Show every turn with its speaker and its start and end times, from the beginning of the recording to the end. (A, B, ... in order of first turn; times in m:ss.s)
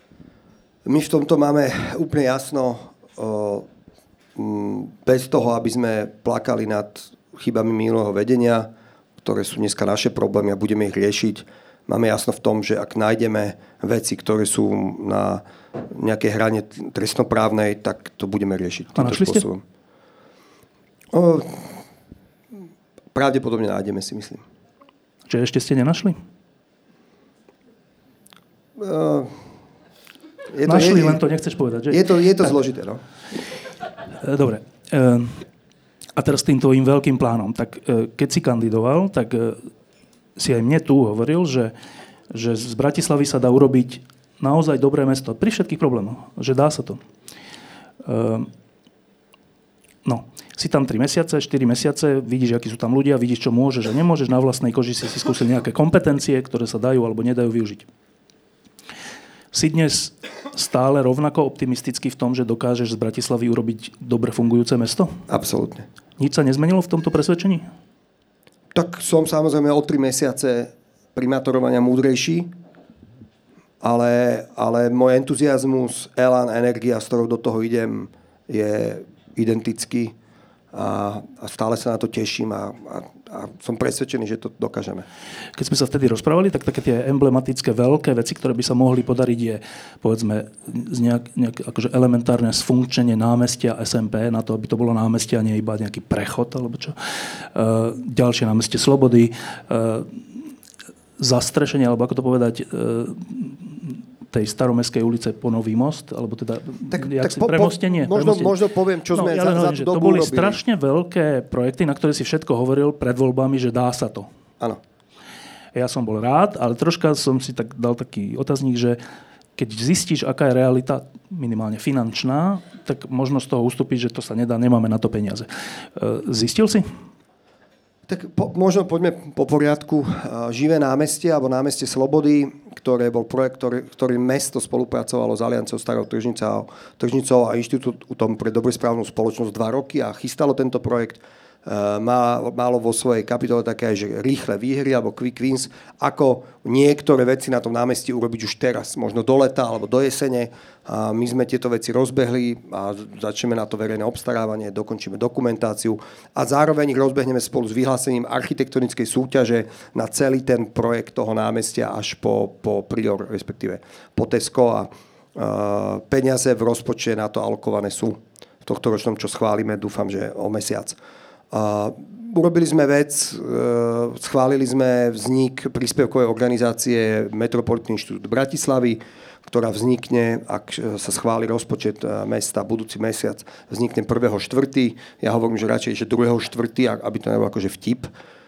0:00.8-0:03.7 A
0:04.4-0:08.7 A
0:09.2-0:19.6 A
0:18.9-0:19.4 B
0:21.1-0:21.8 A
0:23.1-0:24.4 A
0:25.3-0:26.2 B
0:28.8-0:29.4 A
0:30.5-0:31.2 A
0:30.6-0:32.0 B
0:31.9-0:33.0 A
0:34.2-0:35.4 B
0:36.2-0:39.7 B
0:40.4-0:41.7 B
0:42.3-0:47.0 B
0:48.0-0:48.5 B
0:50.0-0:57.9 B
0:59.5-1:05.2 B
1:05.3-1:05.9 A
1:06.2-1:07.6 B
1:08.7-1:12.5 A
1:13.8-1:20.1 A
1:20.7-1:25.1 A
1:25.6-1:37.0 B
1:37.5-1:40.2 B
1:41.2-1:48.6 B
1:46.9-1:50.6 A
1:49.1-1:54.3 B
1:55.7-1:59.0 B
1:59.6-2:06.9 B
2:08.1-2:51.0 A
2:51.5-3:08.1 A